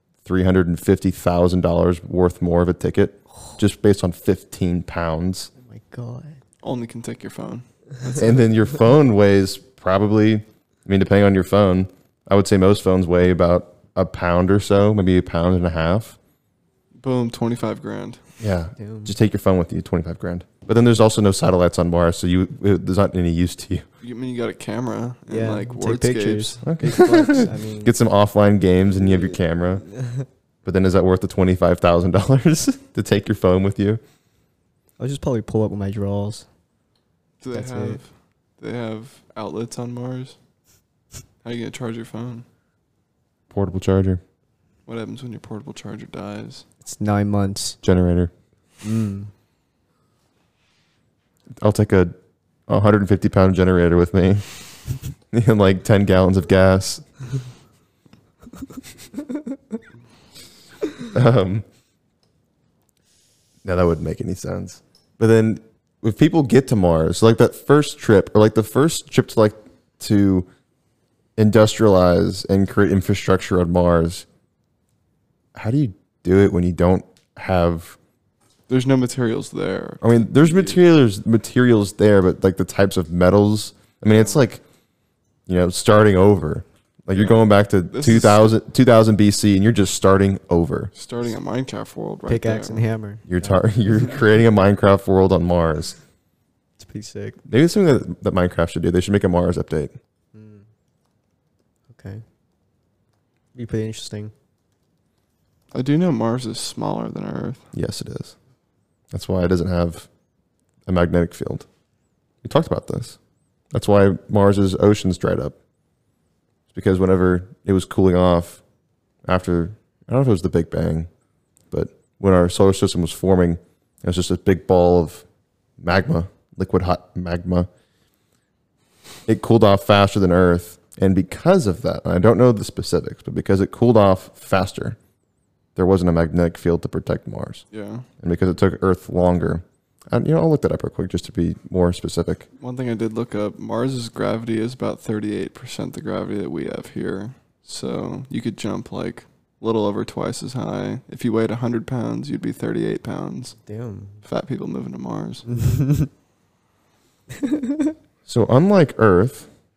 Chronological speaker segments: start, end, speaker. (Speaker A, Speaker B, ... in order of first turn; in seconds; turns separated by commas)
Speaker A: 0.2-5.5, Speaker B: 5.6-6.4, Speaker C: 6.6-8.3, Speaker A: 8.2-16.2, Speaker C: 17.0-18.2, Speaker A: 18.4-23.9, Speaker B: 18.8-19.1, Speaker C: 24.0-26.6, Speaker B: 25.3-27.9, Speaker A: 26.6-29.8, Speaker B: 29.1-30.2, Speaker A: 30.6-34.0, Speaker B: 35.0-36.5, Speaker C: 37.4-40.4, Speaker B: 37.5-38.0, Speaker C: 41.4-42.4, Speaker A: 43.5-44.2, Speaker C: 44.9-46.6, Speaker B: 46.8-47.8, Speaker A: 47.8-48.3, Speaker B: 48.8-49.3, Speaker A: 51.6-52.1, Speaker A: 52.7-54.6, Speaker A: 55.3-57.0, Speaker A: 61.1-61.6, Speaker A: 63.6-70.5, Speaker A: 71.4-74.2, Speaker A: 75.5-78.0, Speaker C: 78.7-80.8, Speaker A: 80.0-84.6, Speaker C: 84.1-84.4, Speaker A: 85.5-90.9, Speaker C: 87.1-88.5, Speaker C: 90.9-92.8, Speaker B: 92.3-93.6, Speaker A: 93.3-96.0, Speaker B: 96.8-97.4, Speaker A: 97.5-100.0, Speaker B: 100.3-100.7, Speaker B: 101.9-102.2, Speaker B: 103.5-104.3, Speaker C: 105.7-107.7, Speaker A: 107.7-108.3, Speaker A: 109.1-110.1, Speaker A: 110.8-111.7, Speaker A: 112.4-113.2, Speaker A: 113.7-115.5, Speaker A: 116.7-118.6, Speaker A: 119.2-121.1, Speaker A: 121.7-125.2, Speaker A: 125.8-127.7, Speaker A: 129.3-135.0, Speaker A: 135.8-137.6, Speaker C: 137.7-138.1, Speaker A: 138.2-142.5, Speaker C: 142.6-153.6, Speaker B: 153.7-154.2, Speaker C: 154.2-155.5, Speaker B: 155.5-156.1, Speaker B: 157.4-157.9, Speaker A: 158.2-159.5